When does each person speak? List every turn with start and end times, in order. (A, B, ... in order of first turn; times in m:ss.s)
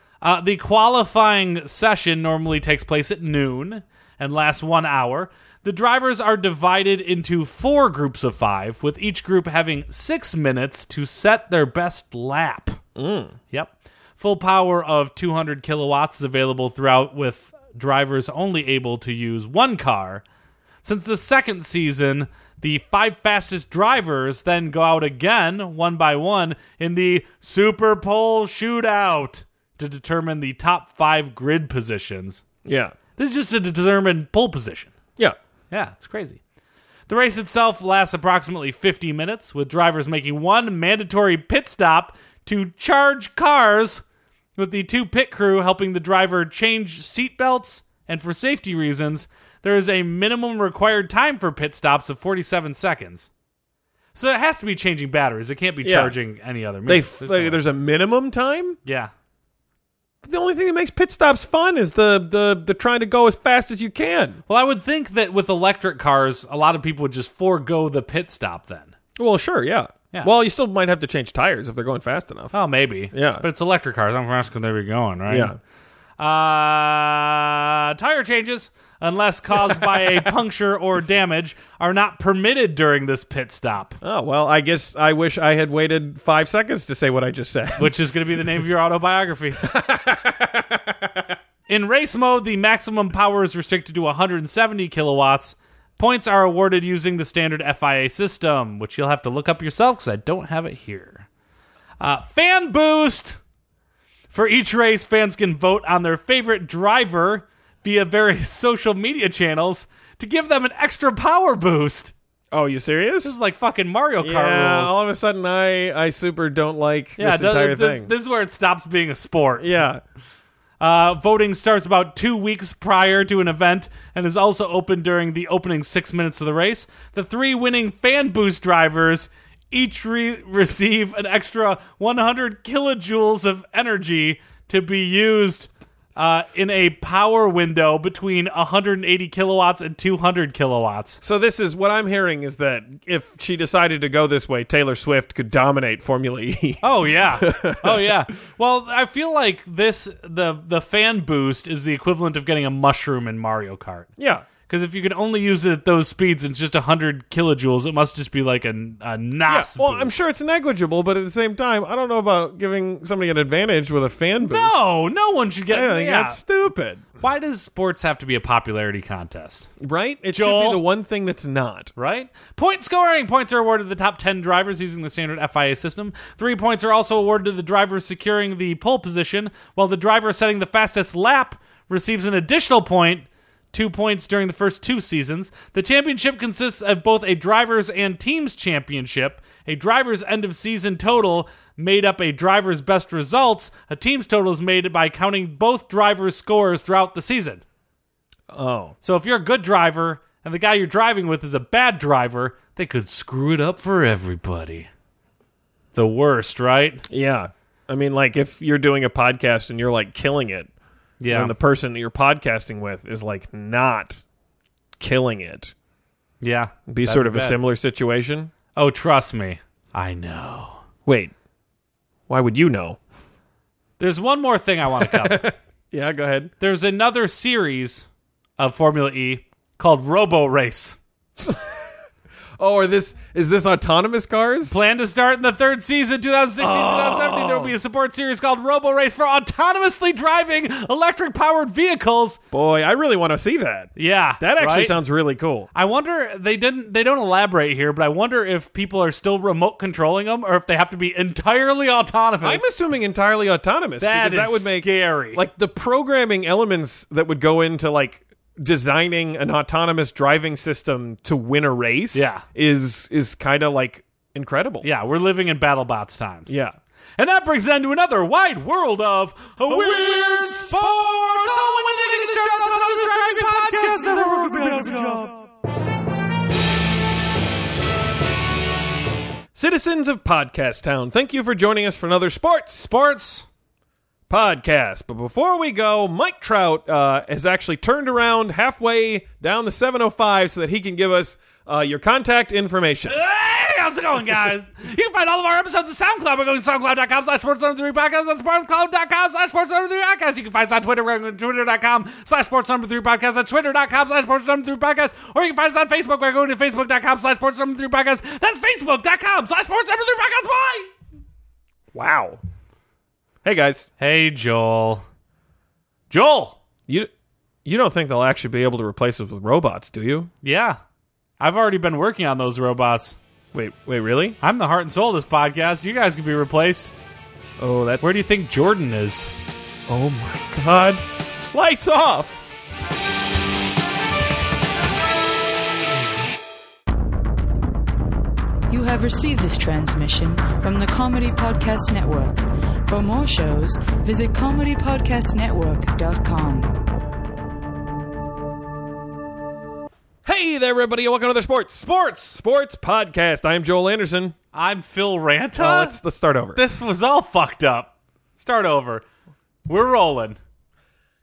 0:00.2-0:12.8 A
0:13.0-0:13.4 B
0:13.5-0:20.2 A
0:20.8-0:32.4 A
0:32.6-0:33.0 B
0:33.2-0:34.9 A
0:35.7-0:36.4 A
0:37.1-0:44.0 A
0:44.6-0:53.3 A
0:54.2-0:57.6 A
0:55.8-0:56.1 B
0:56.9-0:58.8 B
0:58.8-0:59.1 A
1:00.2-1:04.4 B
1:04.5-1:09.0 A
1:09.2-1:12.5 B
1:12.5-1:15.5 A
1:13.1-1:13.4 B
1:15.3-1:15.6 B
1:16.2-1:24.0 A
1:19.6-1:20.1 B
1:24.0-1:27.9 B
1:27.8-1:29.7 A
1:29.6-1:31.4 B
1:31.7-1:41.3 A
1:42.0-1:43.4 A
1:44.3-1:52.1 A
1:52.5-1:53.4 B
1:53.2-1:55.0 A
1:54.2-1:58.1 B
1:57.2-1:59.7 A
1:59.6-2:00.0 B
2:00.8-2:21.2 A
2:21.2-2:28.2 B
2:26.8-2:34.1 A
2:34.2-2:34.5 B
2:34.6-2:40.1 A
2:39.5-2:44.8 B
2:44.4-2:46.4 A
2:45.7-2:47.1 B
2:47.2-2:49.7 A
2:49.8-2:51.9 B
2:50.3-2:50.8 A
2:52.0-3:17.6 A
3:18.5-3:19.0 B
3:19.0-3:24.9 A
3:25.9-3:27.0 A
3:27.1-3:30.7 B
3:31.2-3:31.6 A
3:31.3-3:34.2 B
3:35.0-3:35.7 B
3:36.4-3:37.6 A
3:36.9-3:38.5 B
3:38.7-3:40.8 A
3:41.1-3:41.3 B
3:42.3-3:43.0 B
3:44.0-3:45.5 A
3:45.0-3:46.5 B
3:46.6-3:48.1 A
3:48.6-3:51.0 A
3:51.4-3:51.9 B
3:52.6-3:54.7 B
3:54.7-4:02.4 A
3:56.6-3:57.8 B
4:02.5-4:05.7 B
4:04.0-4:05.0 A
4:05.7-4:12.7 A
4:12.4-4:24.9 B
4:14.0-4:15.4 A
4:22.1-4:22.4 A
4:24.8-4:26.5 A
4:26.5-4:26.8 B
4:27.2-4:35.3 A
4:39.6-4:42.9 B
4:42.8-4:43.5 A
4:44.3-4:53.2 B
4:53.1-5:10.9 A
5:11.9-5:12.4 B
5:13.4-5:13.9 B
5:14.0-5:15.0 A
5:16.1-5:16.6 A
5:17.6-5:20.3 B
5:20.4-5:20.8 A
5:21.4-5:23.2 A
5:23.5-5:24.4 B
5:24.4-5:26.9 A
5:27.6-5:28.0 B
5:28.0-5:29.3 A
5:29.9-5:32.4 B
5:38.7-5:46.7 C
5:50.2-5:54.4 B
5:51.8-5:52.4 A
5:54.5-5:56.0 A
5:55.6-5:56.6 B
5:56.6-5:59.1 A
5:59.7-6:00.4 A